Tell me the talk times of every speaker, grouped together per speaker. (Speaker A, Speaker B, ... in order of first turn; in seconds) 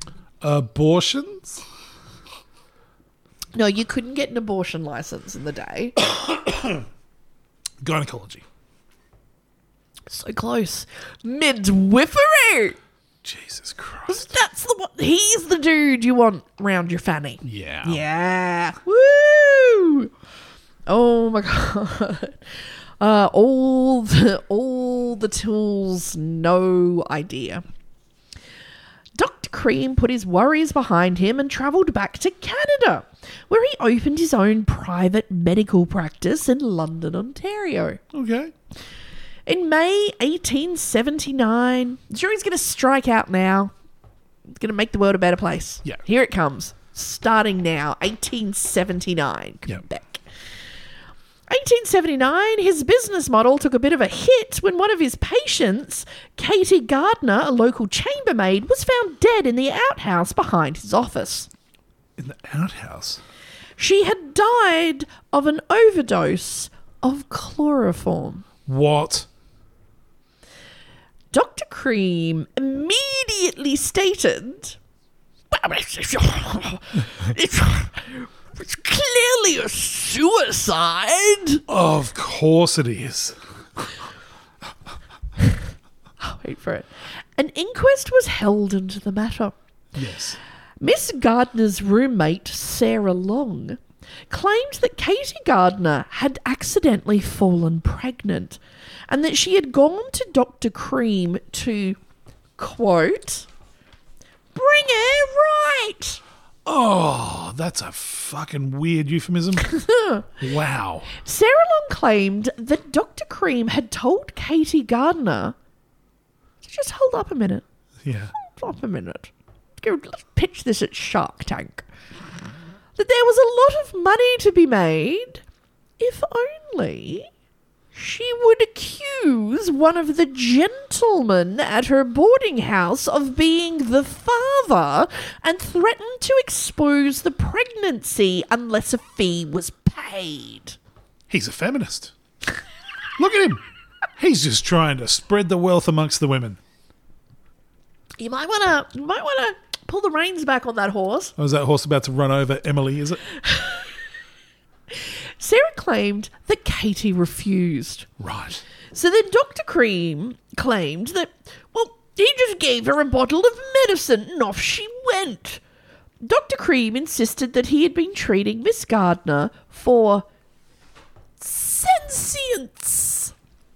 Speaker A: 0.4-1.6, 7.8-8.4, 13.2-14.3, 17.4-18.0, 38.1-38.5, 62.2-63.2, 68.7-69.3, 81.7-83.9, 89.9-90.4, 106.6-109.7, 110.4-111.1, 118.0-118.3, 141.3-142.1, 143.2-143.6, 144.2-146.6, 151.4-153.2, 158.2-158.6
Speaker B: 3.5-6.0, 10.1-12.8, 14.1-20.1, 20.9-22.4, 23.0-27.6, 29.1-38.0, 39.5-43.7, 44.5-50.2, 51.5-61.5, 63.8-68.4, 71.3-74.8, 75.5-81.6, 86.2-89.5, 90.8-98.6, 99.1-102.0, 102.6-103.5, 104.5-106.2, 109.6-110.3, 111.1-115.5, 116.6-117.6, 118.4-121.8, 123.0-125.4, 126.0-127.3, 127.9-140.8, 148.2-151.3, 153.4-153.8, 154.9-158.1, 158.9-165.6, 166.2-170.2, 171.4-173.3